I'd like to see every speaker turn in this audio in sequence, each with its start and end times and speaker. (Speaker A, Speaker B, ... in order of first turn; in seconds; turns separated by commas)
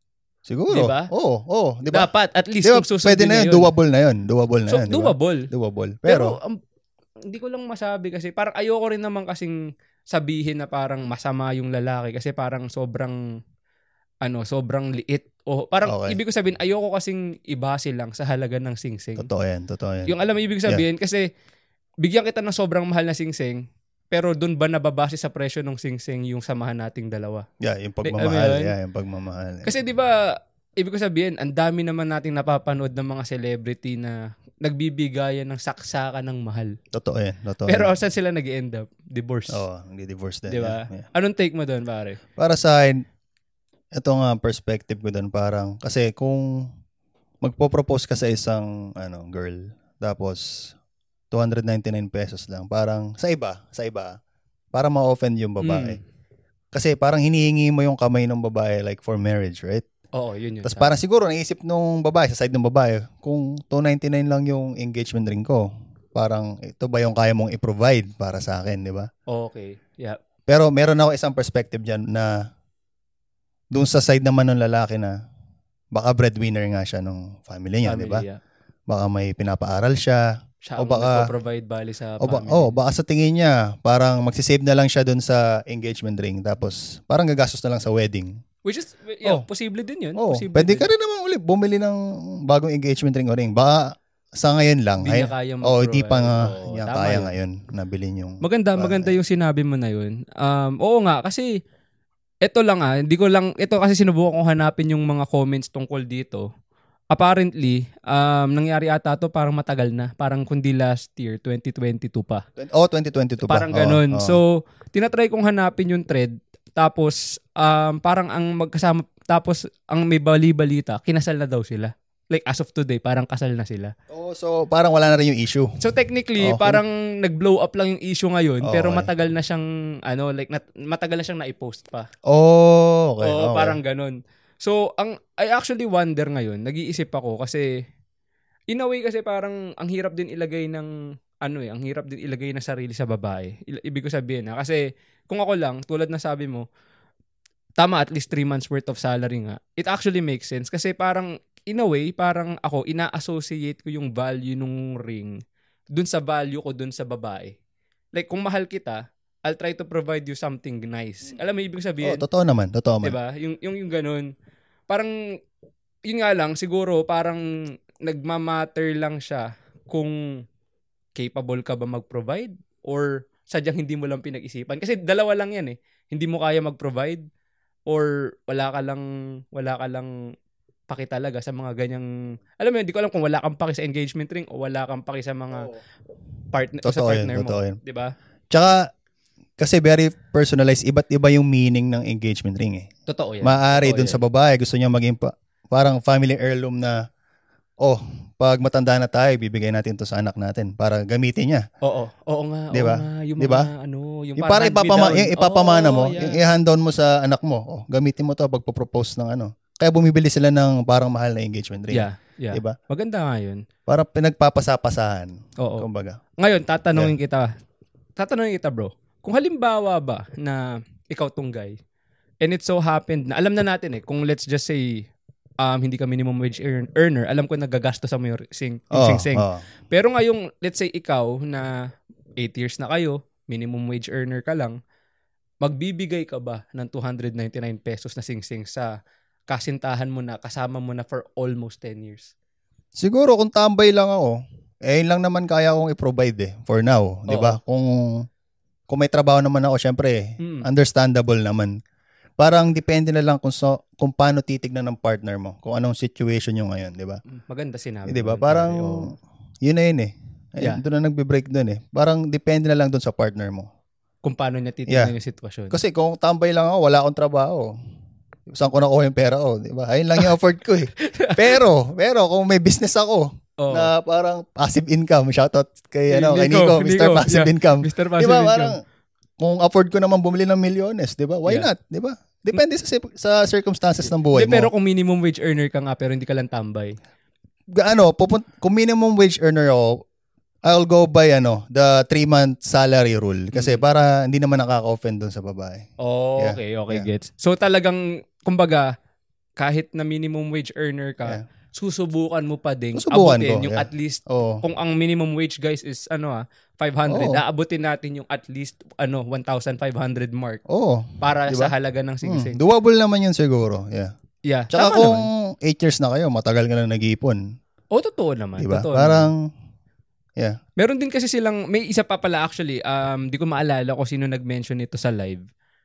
Speaker A: 0.5-2.1, Speaker B: 0.7-1.1, Speaker B: 1.9-3.7, Speaker A: 2.6-6.4, Speaker B: 4.7-5.5, Speaker B: 6.1-6.6, Speaker B: 7.3-9.6, Speaker B: 10.1-13.2, Speaker B: 14.2-19.3, Speaker A: 15.9-16.2, Speaker A: 19.2-20.1, Speaker B: 20.1-21.3, Speaker B: 22.0-27.4, Speaker A: 27.6-29.8, Speaker B: 28.0-28.7, Speaker B: 29.6-36.8, Speaker A: 36.9-37.9, Speaker B: 37.7-39.6, Speaker A: 39.5-41.1, Speaker B: 40.5-42.2, Speaker A: 42.4-43.0, Speaker A: 44.0-46.5, Speaker A: 47.4-50.7, Speaker A: 51.3-54.2, Speaker A: 54.7-56.0, Speaker B: 55.6-56.0, Speaker A: 56.7-59.9, Speaker B: 60.1-60.9, Speaker A: 60.6-69.1, Speaker B: 69.3-70.2, Speaker A: 70.5-72.4, Speaker A: 73.7-75.1, Speaker A: 75.9-78.2, Speaker B: 77.8-78.4, Speaker A: 78.9-80.2, Speaker B: 80.7-82.7, Speaker A: 80.8-81.3, Speaker A: 82.2-88.3, Speaker B: 88.6-90.9, Speaker A: 90.2-99.2, Speaker B: 95.0-97.3, Speaker B: 98.4-101.6, Speaker B: 102.4-106.5, Speaker B: 107.1-112.4, Speaker A: 112.6-114.4, Speaker B: 113.4-123.9, Speaker A: 124.1-125.8, Speaker B: 125.8-132.1, Speaker A: 126.4-126.8, Speaker A: 128.6-129.1, Speaker A: 132.3-133.8, Speaker B: 133.2-137.7, Speaker B: 138.7-140.9, Speaker B: 141.4-146.7, Speaker B: 147.8-155.4, Speaker B: 155.9-157.6, Speaker B: 158.1-162.2, Speaker A: 162.0-163.2, Speaker B: 163.0-164.3, Speaker B: 164.9-165.1, Speaker B: 166.1-167.5, Speaker B: 168.0-170.2, Speaker B: 171.2-177.2, Speaker B: 177.9-180.1, Speaker B: 180.9-185.7, Speaker B: 186.5-188.1, Speaker A: 186.8-187.8, Speaker A: 188.5-188.9, Speaker A: 189.6-192.9, Speaker B: 193.1-194.2, Speaker A: 193.4-197.0, Speaker A: 197.8-201.6, Speaker B: 201.8-206.4, Speaker A: 202.7-203.7, Speaker A: 204.4-212.8, Speaker B: 211.9-213.6, Speaker A: 213.9-216.2, Speaker B: 215.6-215.9, Speaker B: 216.4-217.5, Speaker B: 218.2-221.8, Speaker B: 222.4-225.1, Speaker B: 225.6-231.8, Speaker A: 228.9-229.6, Speaker B: 232.4-234.8, Speaker B: 235.6-238.9, Speaker B: 239.5-242.3, Speaker A: 243.0-248.3, Speaker B: 247.3-247.6, Speaker A: 248.9-251.8, Speaker B: 250.4-250.7, Speaker A: 252.4-257.2, Speaker B: 257.3-259.1, Speaker A: 258.1-263.7, Speaker B: 264.2-265.8, Speaker A: 265.7-267.7, Speaker A: 268.5-278.8, Speaker B: 271.0-271.6, Speaker B: 273.6-273.9, Speaker B: 276.1-278.8, Speaker A: 279.4-284.7, Speaker B: 284.3-286.9, Speaker A: 287.8-290.0, Speaker A: 290.6-297.1, Speaker B: 293.5-293.8, Speaker B: 296.0-298.9, Speaker B: 299.6-310.6, Speaker A: 302.9-304.6, Speaker A: 307.1-307.4, Speaker A: 310.7-314.1, Speaker B: 311.2-312.6, Speaker B: 314.5-315.3, Speaker A: 314.7-317.4, Speaker B: 317.9-319.3, Speaker A: 318.6-319.4, Speaker B: 320.8-325.4